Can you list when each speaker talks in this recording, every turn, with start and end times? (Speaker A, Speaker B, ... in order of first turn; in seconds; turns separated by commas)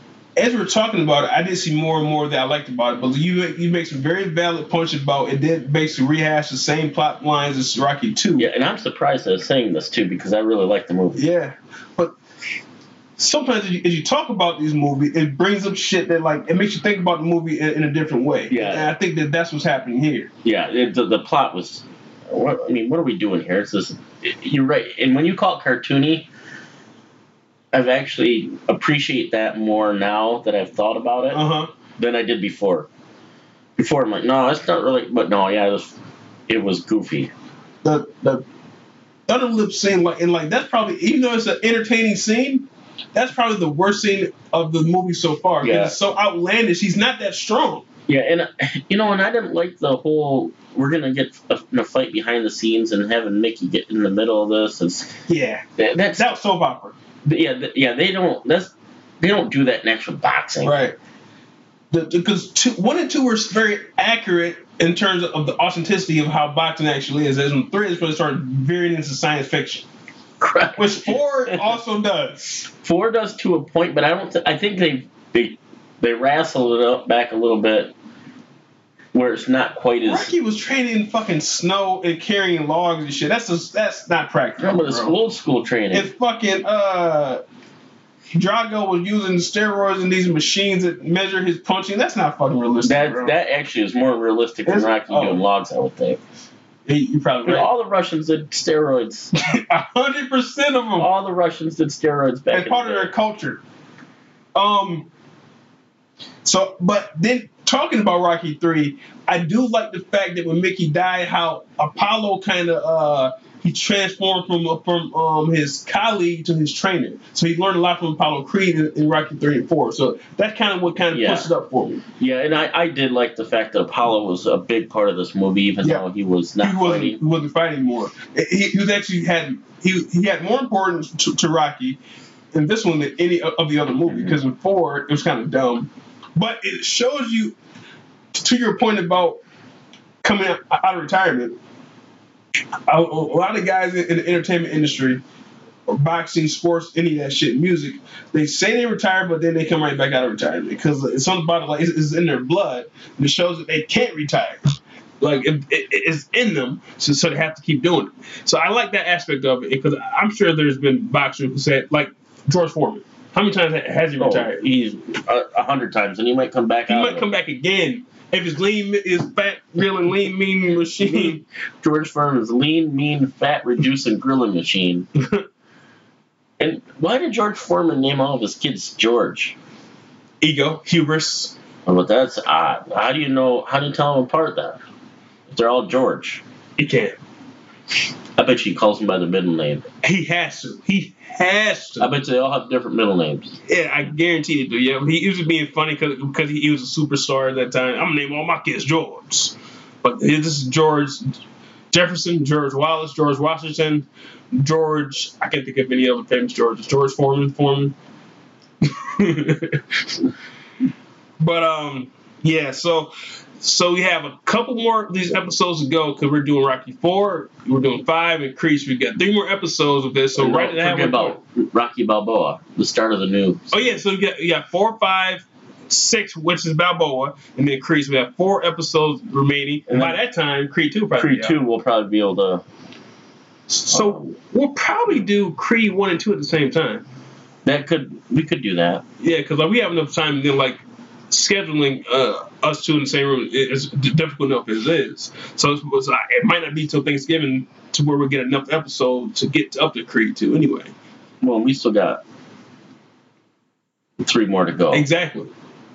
Speaker A: 0.4-8.5, Speaker B: 8.4-11.2, Speaker A: 11.1-12.1, Speaker A: 13.2-20.3, Speaker B: 18.5-18.9, Speaker B: 20.4-26.3, Speaker B: 27.7-31.4, Speaker A: 31.3-31.7, Speaker B: 32.0-32.9, Speaker B: 33.8-35.9, Speaker B: 36.5-37.3, Speaker A: 37.8-38.4, Speaker A: 39.3-47.9, Speaker B: 45.6-45.9, Speaker B: 48.1-55.1, Speaker A: 55.3-57.0, Speaker B: 55.8-56.3, Speaker B: 57.2-60.8, Speaker A: 60.6-61.0, Speaker A: 61.9-69.8, Speaker B: 70.4-71.6, Speaker A: 70.8-72.4, Speaker B: 72.8-77.9, Speaker B: 79.1-80.3, Speaker A: 80.0-85.1, Speaker B: 84.6-86.1, Speaker A: 85.9-87.4, Speaker A: 88.3-93.3, Speaker B: 92.8-96.2, Speaker A: 94.6-95.4, Speaker A: 96.9-97.7, Speaker B: 97.4-99.4, Speaker A: 99.4-101.1, Speaker B: 101.0-103.1, Speaker A: 102.5-103.6, Speaker A: 104.5-105.1, Speaker A: 106.4-122.0, Speaker B: 121.1-121.5, Speaker B: 122.2-127.2, Speaker A: 126.6-132.0, Speaker A: 132.5-137.6, Speaker B: 134.1-134.3, Speaker A: 138.3-139.4, Speaker A: 140.2-141.6, Speaker A: 142.9-145.2, Speaker A: 145.9-154.6, Speaker A: 155.2-164.6, Speaker B: 164.2-167.3, Speaker A: 166.9-171.4, Speaker B: 171.0-175.1, Speaker A: 175.2-175.4, Speaker B: 176.6-179.6, Speaker A: 180.4-181.5, Speaker B: 181.8-184.8, Speaker B: 185.5-186.4, Speaker A: 186.8-187.2, Speaker B: 188.4-189.9, Speaker A: 190.0-192.1, Speaker B: 192.0-193.6, Speaker A: 193.7-201.4, Speaker A: 201.9-207.9, Speaker A: 208.8-210.2, Speaker A: 211.4-221.4, Speaker B: 220.3-224.0, Speaker A: 223.7-231.6, Speaker B: 229.9-230.2, Speaker B: 231.2-232.6, Speaker A: 233.7-237.1, Speaker B: 233.9-234.2, Speaker B: 237.6-239.0, Speaker A: 239.2-250.9, Speaker B: 251.4-252.2, Speaker B: 254.2-255.0, Speaker A: 254.9-255.5